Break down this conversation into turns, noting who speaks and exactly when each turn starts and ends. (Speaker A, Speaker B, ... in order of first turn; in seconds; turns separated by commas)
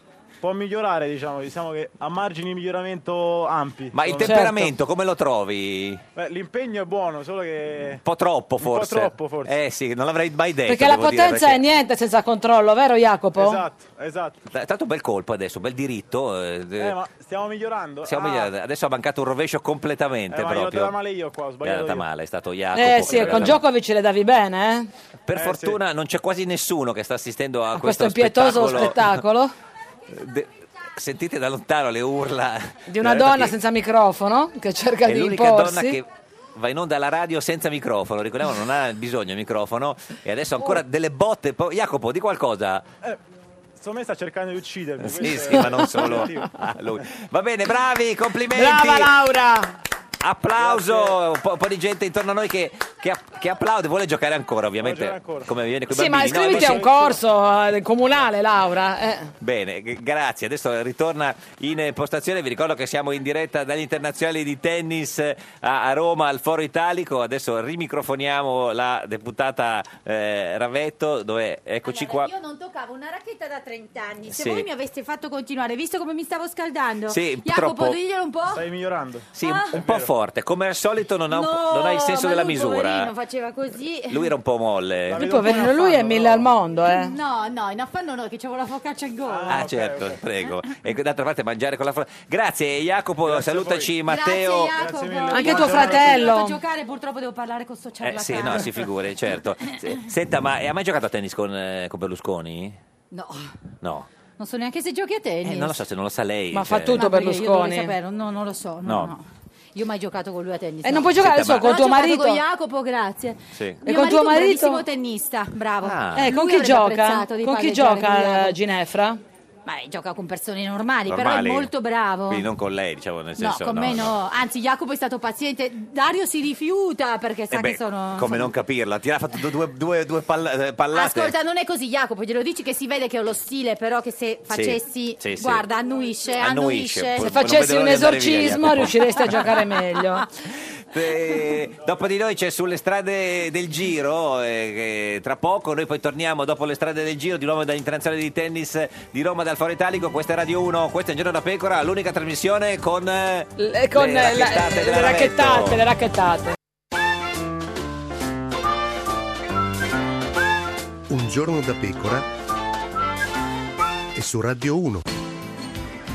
Speaker A: 0.4-4.6, Speaker B: 3.9-6.0, Speaker C: 4.2-4.7, Speaker A: 6.1-8.0, Speaker B: 8.0-11.6, Speaker A: 8.6-9.5, Speaker C: 10.7-13.6, Speaker A: 13.3-14.4, Speaker B: 14.5-17.0, Speaker A: 16.8-18.5, Speaker B: 18.0-21.0, Speaker A: 20.3-22.1, Speaker B: 21.6-23.6, Speaker C: 22.7-24.9, Speaker A: 23.0-23.5, Speaker B: 25.2-29.2, Speaker A: 25.3-25.8, Speaker C: 27.8-29.5, Speaker B: 30.1-33.5, Speaker C: 32.9-36.0, Speaker B: 35.0-42.9, Speaker A: 43.8-46.5, Speaker B: 45.0-49.1, Speaker C: 48.5-49.8, Speaker B: 50.2-57.1, Speaker A: 50.6-51.1, Speaker A: 54.8-55.5, Speaker C: 55.9-59.3, Speaker A: 56.5-57.1, Speaker B: 59.4-72.3, Speaker D: 71.8-78.6, Speaker B: 74.3-74.7, Speaker B: 77.1-78.0, Speaker A: 78.5-80.1, Speaker B: 79.3-83.1, Speaker D: 79.4-79.8, Speaker D: 81.3-84.3, Speaker B: 84.1-85.2, Speaker A: 85.1-86.6, Speaker C: 85.2-87.1, Speaker D: 86.8-89.7, Speaker A: 89.2-90.2, Speaker B: 89.5-94.7, Speaker A: 93.2-93.9, Speaker D: 94.0-98.9, Speaker A: 94.7-96.3, Speaker C: 95.3-96.6, Speaker B: 98.0-102.8, Speaker D: 103.1-103.5, Speaker B: 103.8-104.1, Speaker D: 104.4-105.8, Speaker B: 105.4-107.0, Speaker C: 106.5-107.9, Speaker D: 106.9-118.6, Speaker B: 108.8-109.1, Speaker C: 110.8-112.4, Speaker B: 111.2-111.7, Speaker B: 113.5-113.8, Speaker C: 113.8-114.8, Speaker B: 115.8-116.3, Speaker C: 116.2-119.2, Speaker D: 119.7-122.5, Speaker B: 121.1-121.7, Speaker B: 122.3-124.2, Speaker D: 123.4-128.5, Speaker B: 127.5-131.3, Speaker D: 130.9-137.3, Speaker B: 134.5-135.6, Speaker B: 136.4-139.5, Speaker C: 137.2-140.3, Speaker B: 140.9-155.8, Speaker C: 153.6-156.6, Speaker E: 161.1-162.3, Speaker E: 164.1-165.0